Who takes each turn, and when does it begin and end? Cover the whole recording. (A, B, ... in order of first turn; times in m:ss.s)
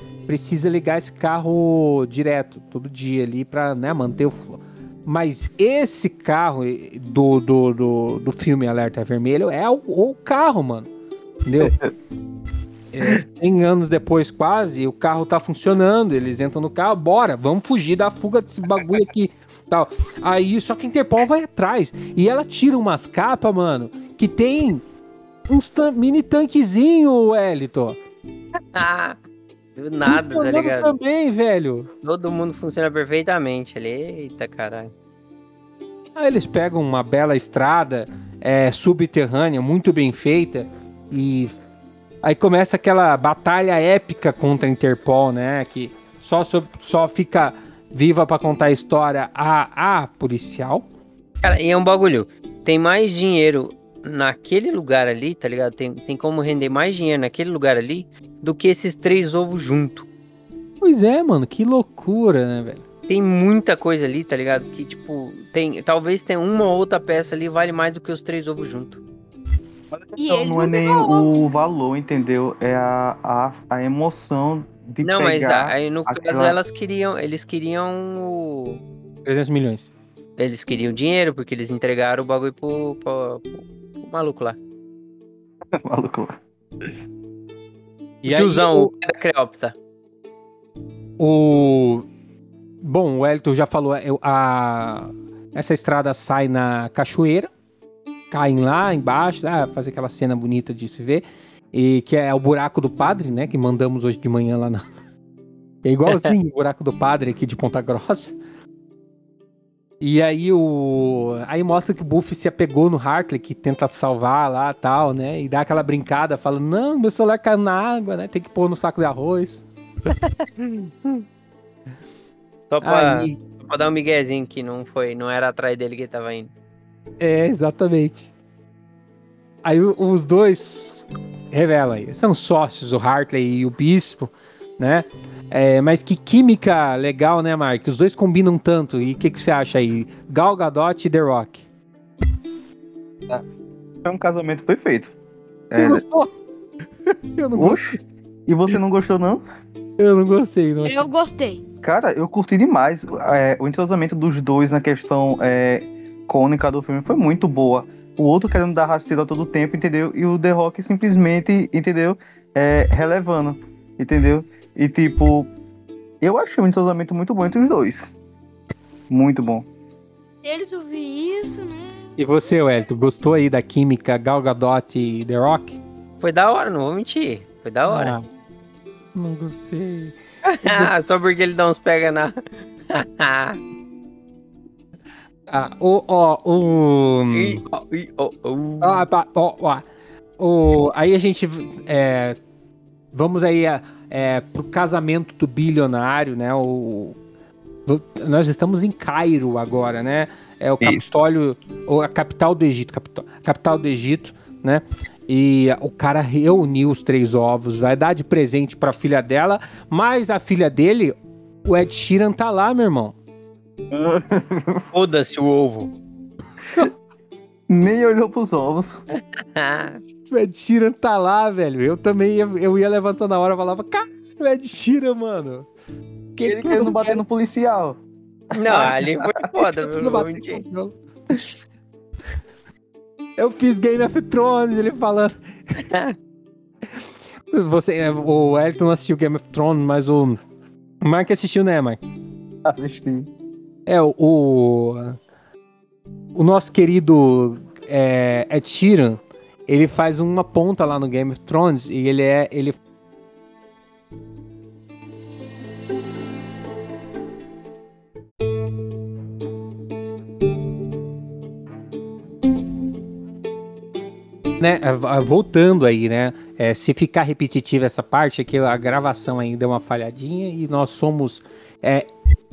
0:00.3-0:10.9 A
0:11.4-0:11.7 A
0:12.9-0:24.8 A
0:25.5-0:28.0 A
0:28.7-0:29.2 B
0:29.8-0:30.9 B
0:30.0-0:31.9 A
0:32.0-0:34.9 B
0:36.2-0:41.6 A
0:42.2-0:50.9 A
0:51.4-1:00.1 B
1:00.8-1:02.8 A
1:03.1-1:09.0 B
1:09.9-1:16.6 C
1:10.2-1:11.4 D
1:15.0-1:18.8 B
1:19.2-1:19.9 A
1:20.4-1:24.6 B
1:25.8-1:26.3 C
1:28.2-1:29.7 B
1:28.3-1:28.9 A
1:31.2-1:32.1 A
1:32.8-1:37.5 A
1:38.3-1:44.8 A
1:45.8-1:48.4 A
1:50.0-1:59.6 A
2:00.2-2:01.2 B
2:02.7-2:06.5 B
2:02.8-2:03.4 A
2:07.2-2:08.3 A
2:09.6-2:21.6 A
2:24.0-2:25.1 C
2:25.7-2:26.0 C
2:25.7-2:26.3 A
2:27.1-2:28.0 A
2:27.6-2:28.0 C
2:28.5-2:29.4 C
2:30.0-2:31.1 A
2:30.8-2:31.6 D
2:31.8-2:45.5 C
2:46.2-2:48.1 C
2:49.1-2:49.7 C
2:50.4-2:52.0 D
2:52.2-2:55.8 A
2:56.2-2:58.2 B
2:57.9-2:58.2 A
2:59.2-3:00.9 A
3:00.5-3:02.4 B
3:02.9-3:03.6 B
3:05.5-3:07.6 A
3:07.3-3:09.0 B
3:08.8-3:09.8 A
3:10.4-3:12.4 A
3:13.1-3:17.2 A
3:17.9-3:33.2 A
3:33.9-3:34.9 C
3:34.9-3:35.9 B
3:37.7-3:39.0 C
3:39.2-3:40.0 B
3:40.3-3:45.7 A
3:46.4-3:47.2 A
3:46.4-3:48.0 C
3:48.6-3:50.6 B
3:48.6-3:49.2 C
3:48.7-3:49.0 A
3:49.6-3:50.9 A
3:53.4-3:55.8 A
3:55.9-3:56.2 B
3:57.5-4:00.4 A
4:01.0-4:02.0 A
4:02.7-4:03.3 C
4:03.9-4:05.2 A
4:06.4-4:12.8 A
4:24.6-4:32.1 A